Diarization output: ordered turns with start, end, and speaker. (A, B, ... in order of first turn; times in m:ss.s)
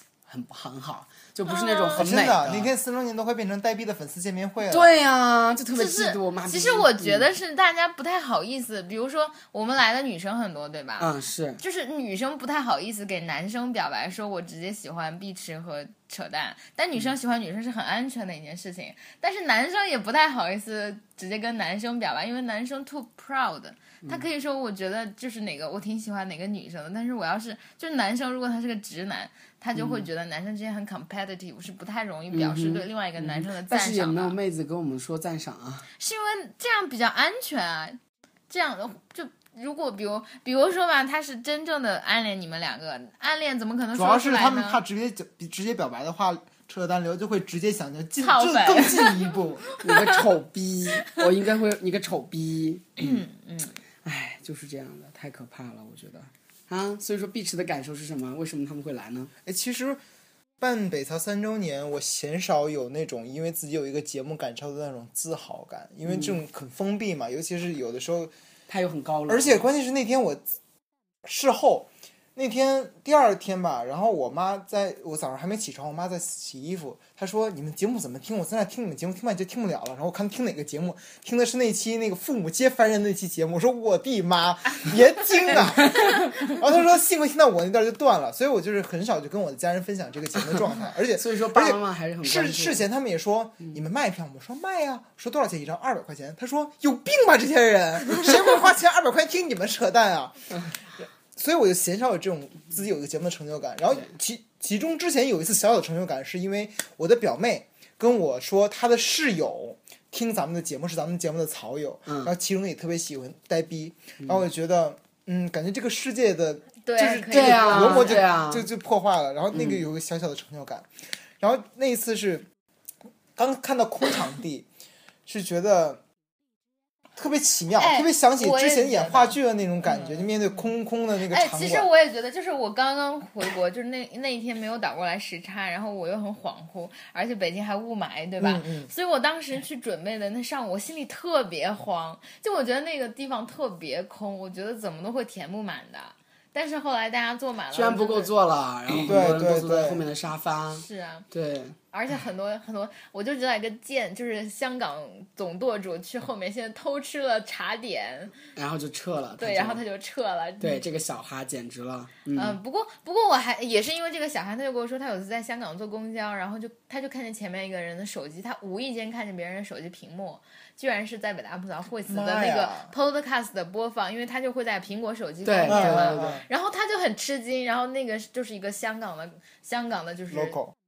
0:00.2-0:02.7 A
0:01.5-0:02.1 B
0:02.0-0:04.9 C
0:04.7-0:07.3 A
0:05.7-0:34.4 B
0:11.0-0:11.6 A
0:29.8-0:30.0 A
0:32.3-0:35.9 A
0:36.0-0:44.8 B
0:43.9-0:49.6 C
0:48.2-0:50.2 B
0:49.8-0:53.2 A
0:53.0-0:53.7 B
0:54.0-0:59.3 A
0:59.4-1:00.0 C
1:00.6-1:08.3 C
1:08.7-1:09.6 A
1:09.3-1:10.5 C
1:11.2-2:02.5 C
1:25.6-1:26.5 A
1:31.1-1:32.8 A
1:56.8-1:58.2 B
1:57.2-1:58.7 A
1:59.5-1:59.8 A
2:03.4-2:04.7 C
2:05.2-2:06.0 C
2:07.2-2:11.9 C
2:07.8-2:10.3 B
2:11.2-2:28.3 B
2:18.4-2:18.9 C
2:27.7-2:31.8 A
2:29.0-2:30.0 C
2:30.7-2:31.2 B
2:31.9-2:38.3 B
2:38.6-2:39.8 A
2:39.4-2:40.8 B
2:40.6-2:42.6 A
2:42.3-3:00.6 B
2:52.1-2:52.9 C
2:55.4-2:56.4 A
2:55.6-2:56.4 C
3:00.3-3:00.7 C